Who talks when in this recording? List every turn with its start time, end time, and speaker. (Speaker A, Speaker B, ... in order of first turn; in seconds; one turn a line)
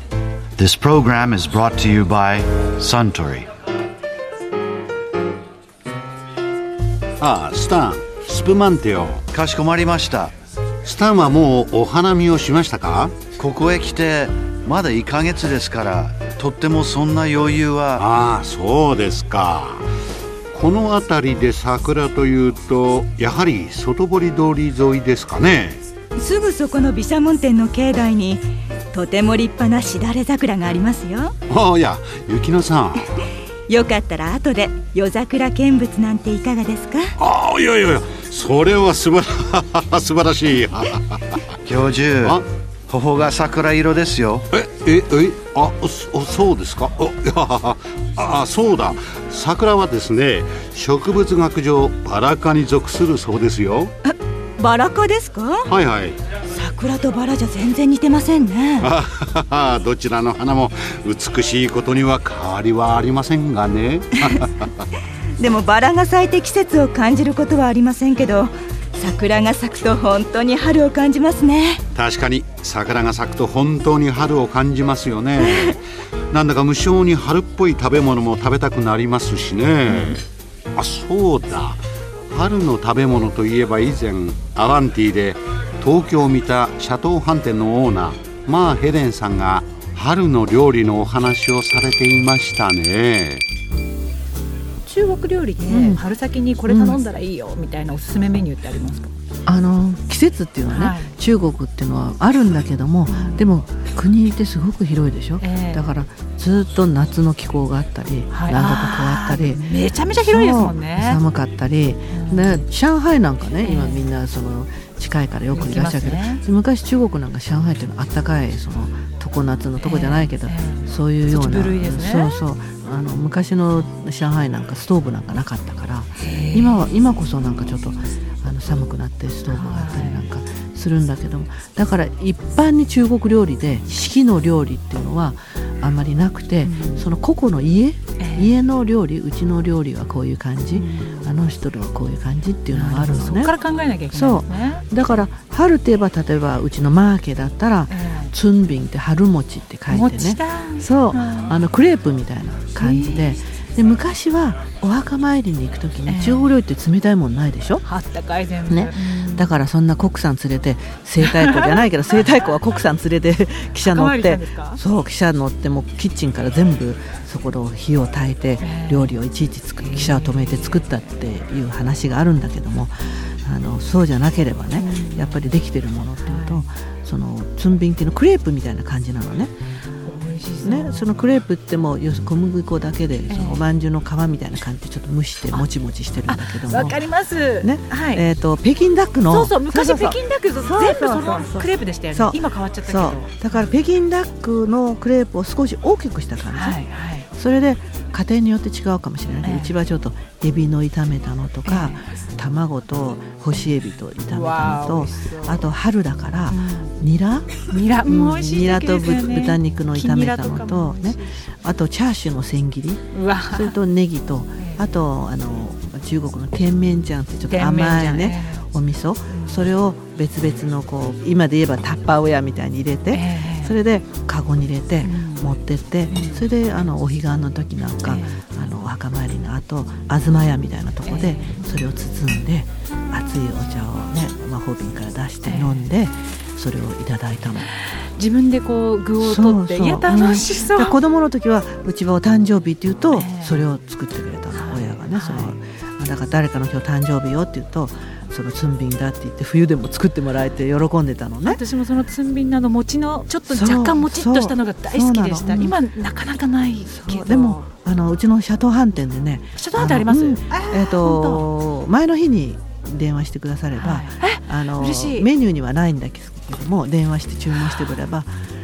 Speaker A: 0.6-3.5
Speaker B: 7.2-9.2
Speaker A: 9.3-10.3
Speaker B: 10.8-13.2
Speaker A: 13.3-18.0
Speaker B: 18.0-19.8
Speaker B: 20.5-25.8
Speaker C: 26.2-31.3
Speaker B: 31.5-33.0
Speaker C: 33.7-37.1
Speaker B: 37.2-41.4
Speaker A: 41.6-44.5
Speaker B: 44.5-53.9
Speaker C: 54.0-55.7
Speaker B: 55.7-56.2
Speaker C: 56.5-58.9
Speaker B: 58.8-64.7
Speaker C: 65.4-71.8
Speaker B: 71.9-75.8
Speaker B: 76.3-93.4
Speaker D: 94.8-99.1
Speaker E: 95.6-96.0
Speaker E: 96.7-97.0
Speaker E: 99.5-143.6
Speaker D: 100.7-101.1
Speaker D: 103.1-103.5
Speaker D: 105.4-105.9
Speaker D: 108.3-111.2
Speaker D: 112.1-112.6
Speaker D: 113.6-114.0
Speaker D: 115.5-116.4
Speaker D: 119.8-122.3
Speaker D: 126.2-126.8
Speaker D: 129.5-130.2
Speaker D: 136.6-137.1
Speaker D: 138.2-138.5
Speaker D: 140.7-141.3
Speaker D: 142.7-144.8
Speaker E: 144.1-157.8
Speaker D: 147.9-148.3
Speaker D: 149.9-151.6
Speaker D: 152.8-153.3
Speaker D: 156.1-156.5
Speaker D: 157.8-159.5
Speaker E: 158.7-179.5
Speaker D: 161.2-161.8
Speaker D: 163.8-164.8
Speaker D: 168.6-169.1
Speaker D: 169.8-170.8
Speaker D: 174.8-175.4
Speaker D: 176.2-176.7
Speaker D: 180.0-180.9
Speaker E: 180.6-237.7
Speaker D: 183.3-183.6
Speaker D: 186.2-188.2
Speaker D: 189.3-193.7
Speaker D: 196.5-197.3
Speaker D: 199.4-199.8
Speaker D: 201.7-202.1
Speaker D: 204.3-205.6
Speaker D: 206.5-206.9
Speaker D: 207.7-211.4
Speaker D: 213.1-213.8
Speaker D: 214.6-214.8
Speaker D: 217.5-218.7
Speaker D: 219.3-219.7
Speaker D: 223.1-223.8
Speaker D: 225.0-225.5
Speaker D: 226.1-226.4
Speaker D: 228.0-228.4
Speaker D: 231.1-231.6
Speaker D: 235.4-235.9
Speaker D: 238.1-241.0
Speaker E: 239.2-251.6
Speaker D: 243.1-243.6
Speaker D: 244.5-245.5
Speaker D: 251.4-257.7
Speaker E: 253.5-255.8
Speaker E: 256.9-268.3
Speaker D: 259.6-261.5
Speaker D: 263.7-265.3